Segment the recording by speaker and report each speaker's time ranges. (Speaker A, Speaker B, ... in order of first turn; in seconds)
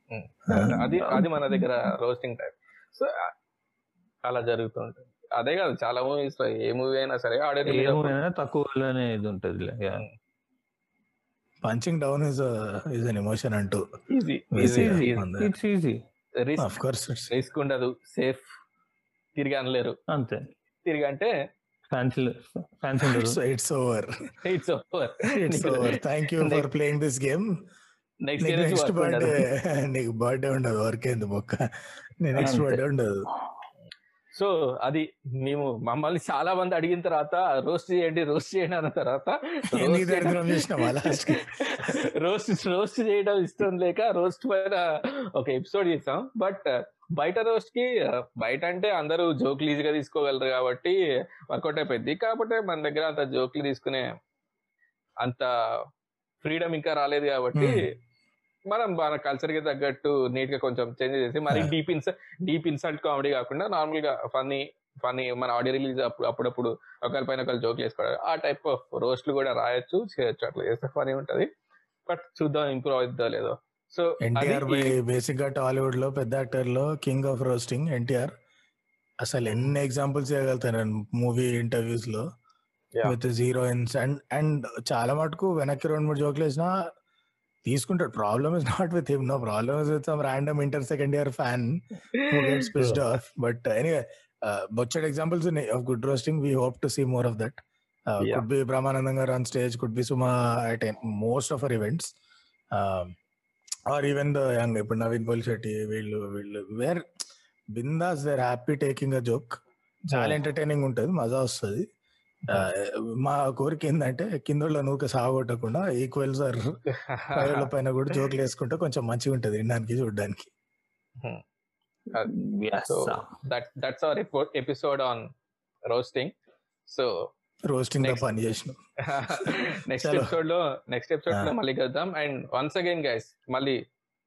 Speaker A: 0.1-3.3, 4.2-8.1, 14.1-15.2, 16.4-18.4, 19.4-20.0, 20.9-21.3, 24.4-26.6, 28.2-29.4, 34.3-54.1, 55.2-55.5, 56.4-57.8, 58.7-71.5, 72.1-75.0, 92.5-93.0, 117.1-117.7, 122.8-125.3, 125.9-126.3, 126.9-127.3, 129.1-133.8
Speaker B: 0.5-0.8, 11.6-13.8, 14.5-15.5, 16.6-17.3, 23.1-24.1, 25.2-27.4, 28.4-31.6, 32.2-33.2, 39.7-42.0, 57.5-57.8, 74.2-78.3, 79.2-82.2, 83.0-86.7, 87.7-91.8, 92.3-102.1, 102.7-103.2, 103.9-107.0, 107.7-109.6, 110.1-111.8, 112.5-116.7, 117.3-120.5, 127.7-130.3
Speaker C: 0.6-1.7, 7.7-10.1, 14.6-16.0, 20.1-20.5, 21.9-23.4, 32.4-32.8, 122.2-123.3